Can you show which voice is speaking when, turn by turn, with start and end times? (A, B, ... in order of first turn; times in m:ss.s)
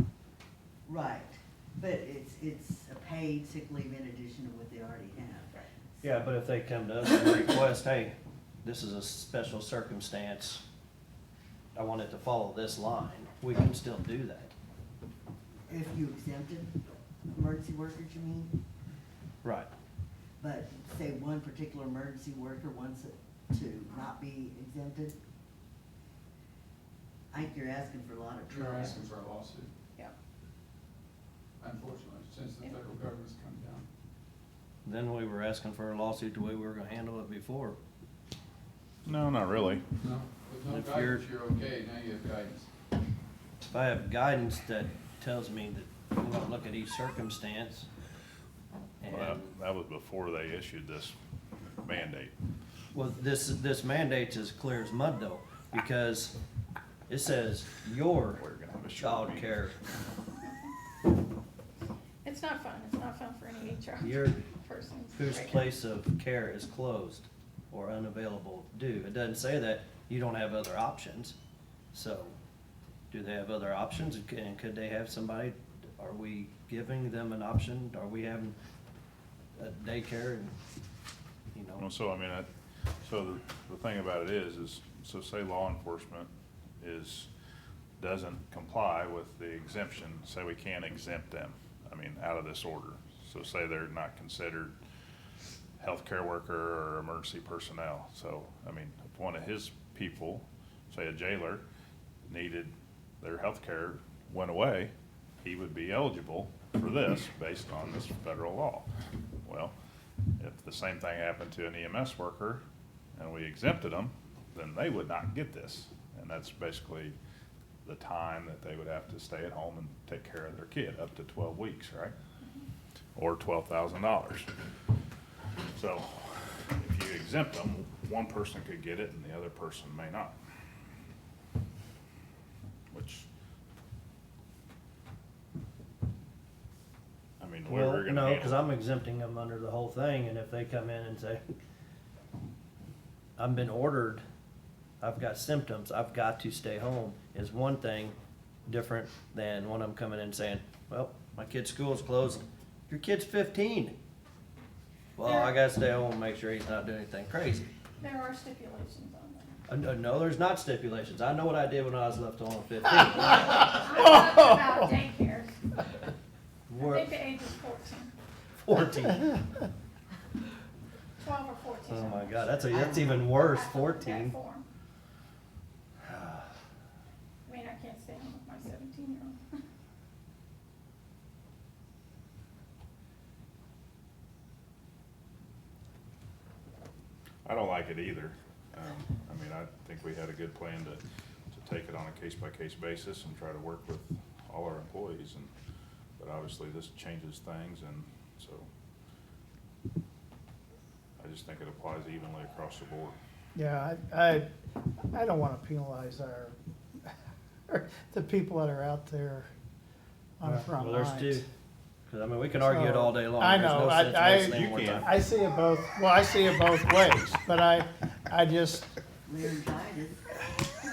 0:00.9-0:06.1 A
0:06.0-0:10.6 B
0:11.7-0:14.5 B
0:15.7-0:16.7 A
0:17.3-0:18.5 A
0:19.4-0:19.7 B
0:20.4-0:25.2 A
0:27.3-0:29.1 A
0:28.5-0:29.7 C
0:31.6-0:33.9 C
0:34.8-0:37.8 B
0:39.0-0:39.9 D
0:40.0-0:42.7 C
0:40.7-0:41.3 B
0:43.6-0:47.9 B
0:49.0-0:49.4 B
0:49.1-0:51.2 D
0:51.8-0:52.3 D
0:52.9-0:56.4 B
0:57.1-0:58.4 B
0:58.4-0:59.6 D
0:59.0-0:59.8 B
1:02.2-1:05.6 E
1:04.0-1:04.5 B
1:05.1-1:11.4 B
1:11.9-1:12.4 B
1:13.1-1:18.6 B
1:19.6-1:20.5 B
1:21.5-1:21.9 B
1:21.8-1:22.5 D
1:23.0-1:27.3 D
1:28.0-1:34.8 D
1:35.8-1:41.6 D
1:42.3-1:48.9 D
1:49.4-1:49.7 D
1:50.4-1:52.6 D
1:53.2-1:57.2 D
1:57.8-2:02.1 D
2:03.2-2:04.5 D
2:05.8-2:10.3 D
2:12.9-2:13.2 D
2:17.4-2:18.7 D
2:17.7-2:21.4 B
2:23.4-2:24.2 B
2:25.0-2:34.0 B
2:35.2-2:37.7 B
2:35.2-2:35.5 E
2:38.0-2:39.5 E
2:39.7-2:43.9 B
2:43.6-2:45.6 E
2:44.3-2:44.5 F
2:46.7-2:47.1 B
2:46.8-2:48.1 E
2:48.6-2:49.4 B
2:51.2-2:54.7 E
2:51.9-2:54.4 B
2:56.1-2:56.4 B
2:57.5-2:59.4 E
3:07.4-3:11.0 D
3:11.5-3:15.5 D
3:16.2-3:18.7 D
3:21.2-3:23.2 D
3:23.5-3:27.1 F
3:27.7-3:29.5 F
3:30.4-3:31.4 F
3:30.4-3:31.5 B
3:32.1-3:35.1 B
3:32.6-3:38.9 F
3:34.4-3:35.1 D
3:39.2-3:40.5 A